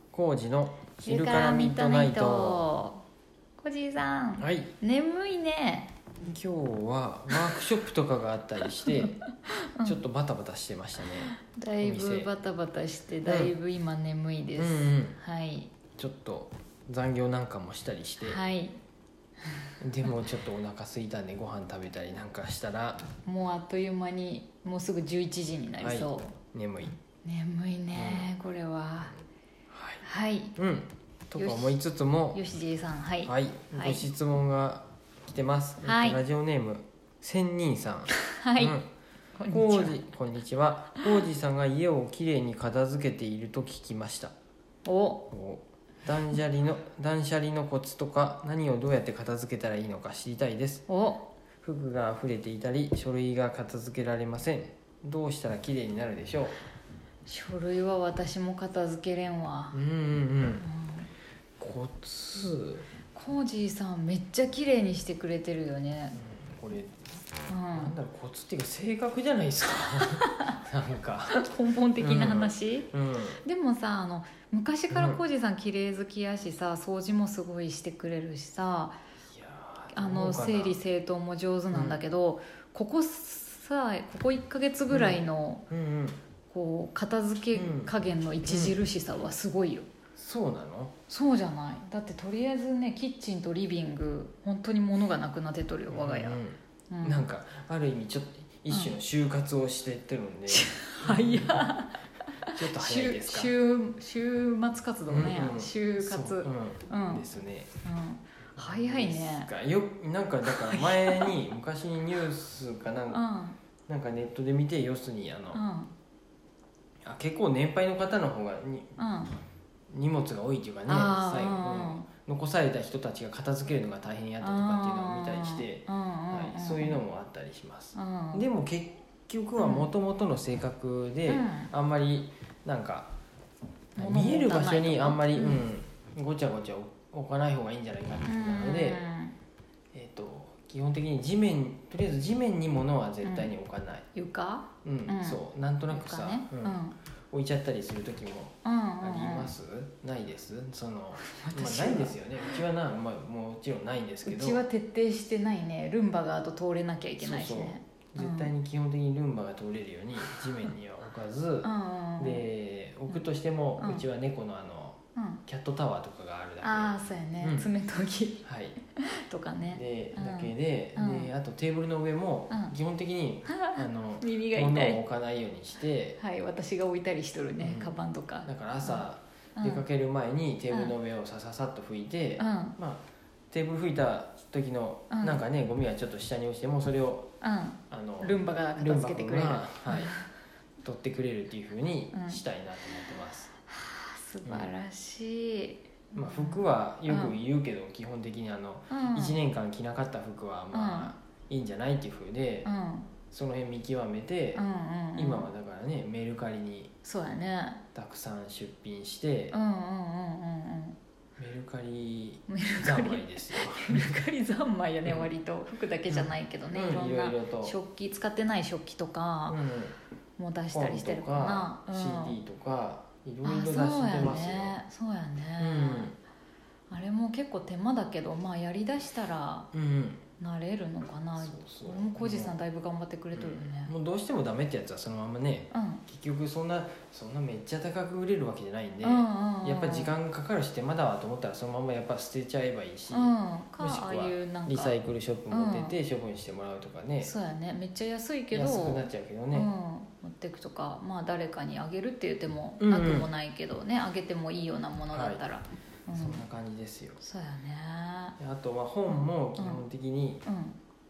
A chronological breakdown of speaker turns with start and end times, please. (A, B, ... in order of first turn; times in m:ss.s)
0:00.1-0:02.7 A
0:01.0-0:03.0 B
0:03.6-0:05.9 B
0:04.4-0:04.7 A
0:06.2-0:09.2 A
0:08.8-0:10.0 B
0:09.8-0:12.3 A
0:11.3-0:15.7 B
0:13.2-0:13.5 A
0:14.6-0:15.2 A
0:16.0-0:18.4 A
0:18.2-0:18.8 B
0:19.8-0:23.0 A
0:23.2-0:26.4 B
0:25.8-0:27.0 A
0:27.2-0:29.2 B
0:27.9-0:28.3 A
0:29.7-0:30.0 A
0:30.0-0:30.6 B
0:30.6-0:32.4 A
0:31.4-0:31.8 B
0:32.3-0:34.1 B
0:33.2-0:38.9 A
0:35.8-0:36.2 B
0:38.3-0:38.8 B
0:39.4-0:40.0 B
0:39.5-0:44.3 A
0:44.8-0:45.3 B
0:45.3-0:50.9 A
0:50.9-0:51.3 B
0:51.6-0:56.6 A
0:57.3-0:59.8 B
0:59.7-1:00.6 A
1:00.6-1:01.1 B
1:01.6-1:02.9 A
1:03.1-1:06.2 B
1:06.2-1:07.1 A
1:07.5-1:07.9 B
1:07.7-1:11.4 A
1:11.3-1:12.9 B
1:12.0-1:13.4 A
1:13.4-1:19.0 B
1:14.9-1:15.2 A
1:19.3-1:20.8 A
1:19.9-1:25.6 B
1:21.7-1:22.0 A
1:24.9-1:26.2 A
1:26.5-1:29.9 B
1:27.5-1:28.8 A
1:30.2-1:30.9 A
1:31.1-1:36.4 B
1:35.9-1:41.7 A
1:36.9-1:37.3 B
1:40.5-1:47.2 B
1:42.5-1:43.5 A
1:45.1-1:47.7 A
1:47.8-1:49.5 B
1:48.6-1:53.2 A
1:50.4-1:51.4 B
1:53.1-1:53.6 B
1:53.9-1:55.6 A
1:55.5-1:55.9 B
1:57.0-1:59.0 A
1:59.0-1:59.4 B
1:59.9-2:13.1 A
2:00.9-2:02.1 B
2:04.4-2:07.0 B
2:08.0-2:08.5 B
2:09.6-2:09.9 B
2:11.3-2:11.7 B
2:14.0-2:19.0 A
2:14.0-2:15.7 B
2:18.2-2:19.4 B
2:19.9-2:24.1 A
2:23.2-2:23.5 B
2:24.1-2:27.0 B
2:24.8-2:26.8 A
2:27.3-2:34.6 A
2:28.6-2:29.6 B
2:31.3-2:32.6 B
2:34.3-2:38.5 B
2:37.2-2:47.7 A
2:41.6-2:42.4 B
2:43.8-2:44.0 B
2:45.2-2:45.4 B
2:46.6-2:48.4 B
2:48.4-2:48.8 A
2:49.1-2:51.3 B
2:49.7-2:56.2 A
2:52.5-2:52.8 B
2:53.5-2:55.0 B
2:56.2-2:59.0 B
2:57.6-3:07.3 A
2:59.6-2:59.9 B
3:02.4-3:02.8 B
3:05.1-3:05.4 B
3:07.4-3:10.2 B
3:07.9-3:10.2 A
3:10.8-3:13.5 A
3:12.1-3:12.4 B
3:13.7-3:17.4 B
3:14.4-3:14.7 A
3:16.2-3:22.7 A
3:18.9-3:19.4 B
3:20.7-3:21.1 B
3:22.6-3:23.1 B
3:23.3-3:26.9 A
3:24.6-3:25.5 B
3:27.0-3:27.8 B
3:27.9-3:29.6 A
3:29.5-3:31.0 B
3:31.4-3:34.2 A
3:32.5-3:39.6 B
3:35.0-3:35.3 A
3:36.1-3:37.8 A
3:39.5-3:40.0 A
3:40.4-3:42.4 B
3:40.7-3:44.8 A
3:43.4-3:46.1 B
3:45.6-3:46.2 A
3:46.9-3:49.7 B
3:49.7-3:50.2 A
3:50.4-3:53.9 B
3:51.4-3:52.6 A
3:53.4-4:07.3 A
3:55.7-3:56.0 B
3:59.0-4:00.1 B
4:03.1-4:05.0 B
4:05.5-4:06.0 B
4:07.2-4:16.4 B
4:08.5-4:09.7 A
4:12.8-4:13.3 A
4:15.1-4:15.4 A
4:16.1-4:17.2 A
4:17.2-4:18.4 B
4:18.4-4:20.4 A
4:19.1-4:19.8 B
4:20.5-4:20.8 B